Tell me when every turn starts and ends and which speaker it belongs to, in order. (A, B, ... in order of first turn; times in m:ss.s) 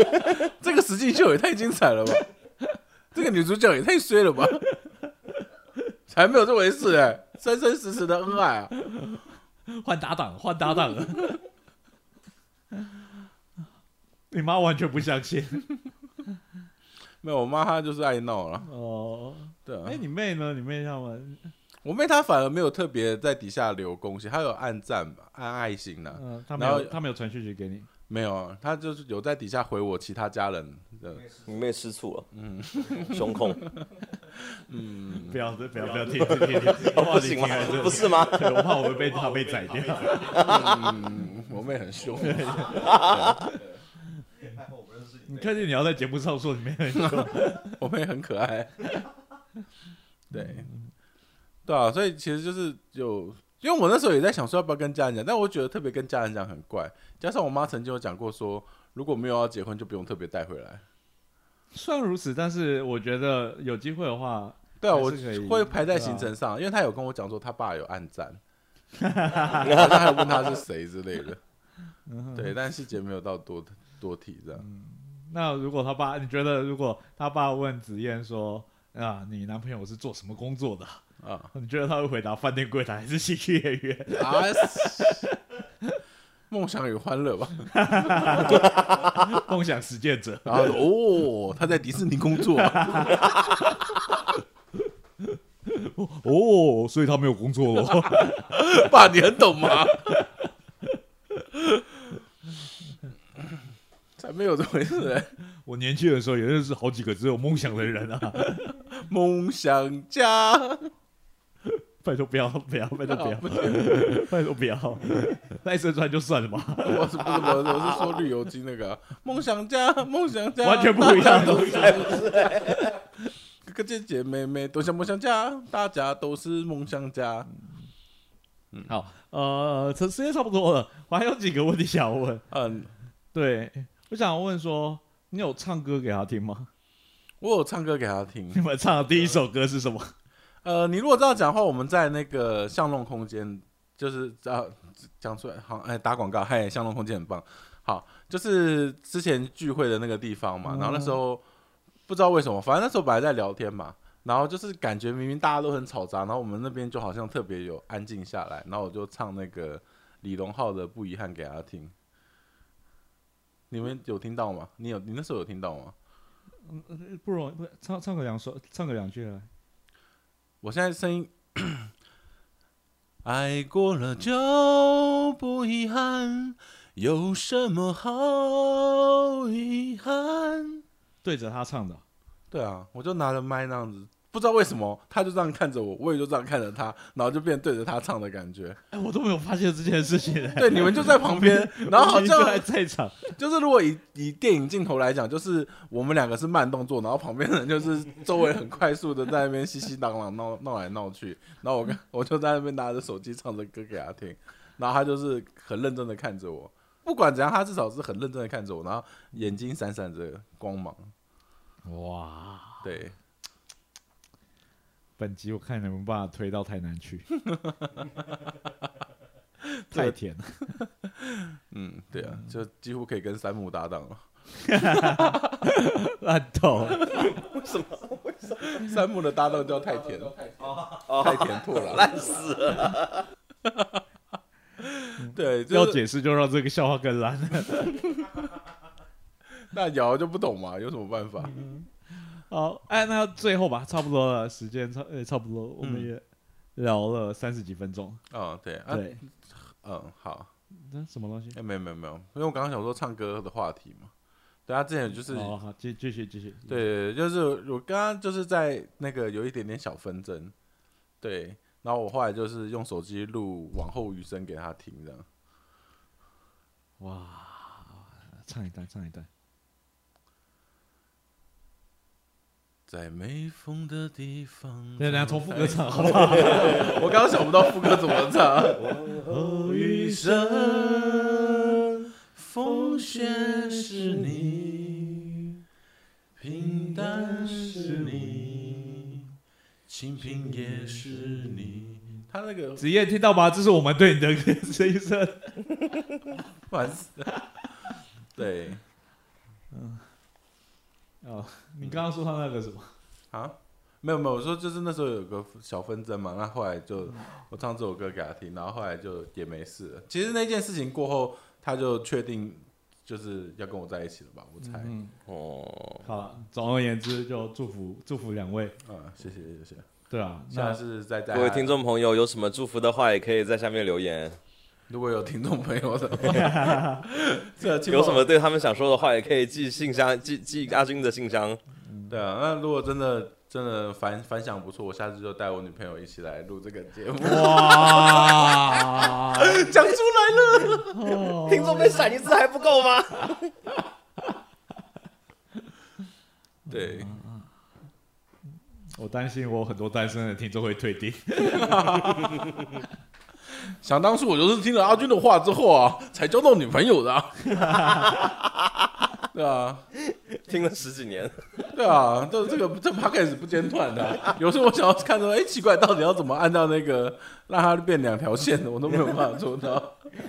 0:00.2-0:02.3 A
0:03.1-0:04.7 A
0:06.1-0:08.7 A
0:08.9-0:11.4 B
0:14.3-0:15.7 B
0:17.2-0:18.7 A
0:18.6-0:21.5 B
0:19.7-0:20.0 A
0:21.8-0:27.0 A
0:26.2-0:27.9 B
0:28.1-0:31.3 A
0:31.4-0:32.3 C
0:32.3-0:33.6 A
0:33.0-0:33.6 C
0:34.5-0:35.4 A
0:35.2-0:40.5 B
0:36.6-0:38.6 C
0:40.3-0:40.7 C
0:40.4-0:43.6 A
0:42.2-0:43.0 B
0:42.7-0:43.5 C
0:45.3-0:47.8 B
0:46.9-0:48.8 A
0:50.3-0:50.7 A
0:50.3-0:50.8 B
0:51.6-1:00.8 A
1:01.7-1:06.3 B
1:04.8-1:08.4 A
1:09.0-1:09.7 B
1:09.6-1:11.4 A
1:09.6-1:10.5 C
1:12.1-1:12.5 B
1:12.4-1:14.6 A
1:14.6-1:25.3 B
1:21.2-1:21.5 A
1:24.1-1:25.3 A
1:26.5-1:28.6 A
1:27.7-1:30.8 B
1:30.5-1:33.3 A
1:32.7-1:33.3 B
1:35.7-1:38.5 B
1:38.3-1:40.2 A
1:44.2-1:45.3 A
1:45.6-1:48.8 B
1:48.9-1:50.9 A
1:52.0-1:57.4 B
1:53.0-1:54.3 A
1:56.8-2:02.5 A
2:00.6-2:02.2 B
2:01.5-2:02.9 C
2:03.6-2:07.5 A
2:08.9-2:12.4 B
2:12.5-2:12.9 A
2:13.3-2:16.7 B
2:17.4-2:18.6 A
2:18.5-2:20.1 B
2:20.6-2:31.4 A
2:30.7-2:31.2 B
2:32.1-2:41.9 A
2:43.7-2:46.0 A
2:46.6-2:49.5 B
2:50.6-2:51.9 A
2:53.2-3:00.8 A
3:01.2-3:02.0 B
3:02.5-3:08.8 A
3:08.9-3:13.4 B
3:10.6-3:12.7 A
3:13.4-3:31.1 A
3:31.9-3:32.9 B
3:32.8-3:33.2 A
3:35.2-3:37.3 B
3:37.5-3:38.0 A
3:39.9-3:40.8 B
3:40.8-3:44.2 A
3:42.2-3:42.4 B
3:44.6-3:47.1 B
3:44.8-3:45.5 A
3:47.1-3:48.8 C
3:48.8-3:50.5 A
3:50.6-3:53.3 C
3:51.2-3:52.2 A
3:53.6-3:54.0 A
3:54.8-3:56.0 A
3:55.2-3:58.0 B
3:59.7-4:01.6 A
4:01.4-4:06.2 B
4:05.8-4:06.1 A
4:06.8-4:08.2 B
4:08.3-4:10.5 A
4:08.9-4:09.2 B
4:10.7-4:11.6 B
4:11.5-4:14.1 A
4:14.7-4:15.6 A
4:15.3-4:16.8 B
4:16.7-4:20.5 A
4:21.2-4:25.3 A
4:27.0-4:29.3 B
4:32.9-4:45.5 A
4:35.0-4:37.0 B
4:39.3-4:40.3 B
4:46.4-4:49.3 A
4:49.9-4:52.8 A
4:52.8-4:55.6 B
4:56.7-4:57.4 A
4:58.4-4:58.8 A
4:59.7-5:00.1 B
5:01.2-5:02.9 B
5:03.3-5:14.9 A
5:14.6-5:15.1 B
5:15.3-5:16.0 C
5:16.0-5:18.8 B
5:18.8-5:19.9 A
5:20.1-5:20.8 B
5:20.5-5:21.8 A
5:21.3-5:24.4 C
5:24.9-5:28.3 A
5:26.3-5:27.0 B
5:27.9-5:31.6 C
5:31.9-5:32.2 B
5:32.1-5:41.1 A
5:37.2-5:39.6 B
5:40.9-5:42.0 B
5:41.5-5:43.5 C
5:46.7-5:47.1 A
5:46.7-5:47.5 B
5:48.9-5:52.2 B
5:51.4-5:52.6 A
5:53.6-5:57.8 A
5:57.5-5:58.2 B
5:59.3-5:59.9 A
6:00.3-6:01.4 C
6:01.7-6:10.0 A